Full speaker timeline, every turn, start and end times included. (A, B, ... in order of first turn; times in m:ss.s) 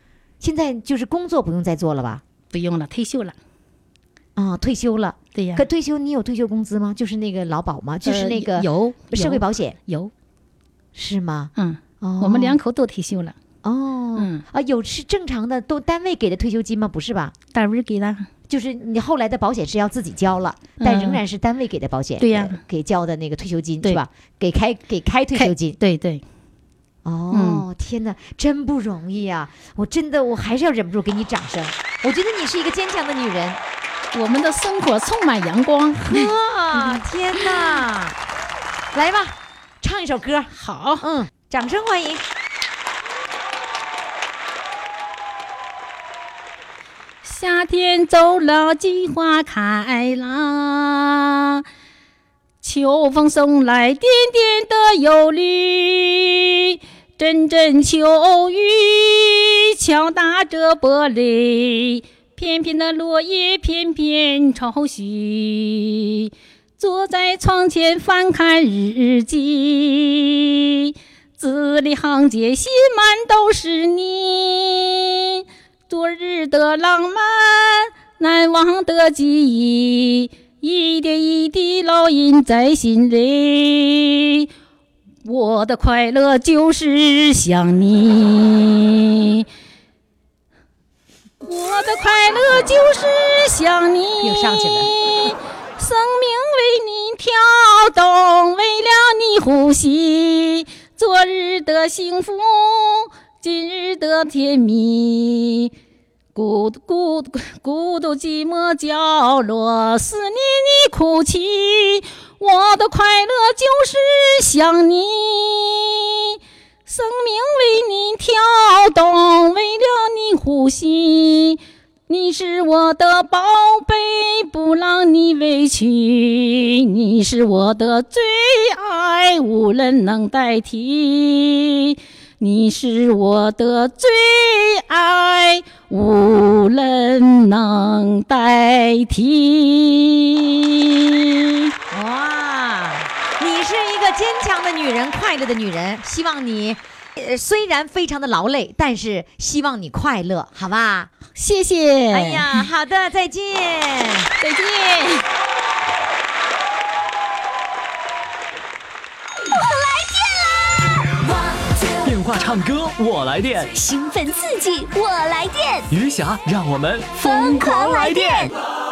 0:00.4-0:02.2 A
0:02.5-0:03.4 B
0:04.4-0:09.8 A
0:05.3-0:05.6 B
0:08.0-0:10.1 B
0:10.9-0:12.6 A
0:11.6-0:13.4 B
0:13.6-0:17.3 A
0:14.2-0:14.4 B
0:17.5-0:18.3 B
0:18.5-0:25.8 A
0:20.8-0:21.2 B
0:22.2-0:22.6 B
0:25.3-0:26.2 B
0:27.0-0:33.6 A
0:27.3-0:27.6 B
0:34.1-0:37.0 B
0:36.0-0:38.2 A
0:37.5-0:37.8 B
0:38.9-0:42.2 A
0:40.5-0:41.0 B
0:47.2-0:51.6 B
0:52.6-1:24.5 B
1:25.2-1:29.4 B
1:31.4-1:45.7 B
1:34.2-1:34.9 A
1:46.3-2:21.7 B
2:21.9-2:31.1 A
2:31.4-2:32.7 B
2:32.1-2:34.3 A
2:34.4-2:35.2 B
2:39.4-2:41.9 C
2:42.0-2:43.7 D
2:43.7-2:45.9 C
2:45.9-2:48.5 D
2:47.2-2:48.5 C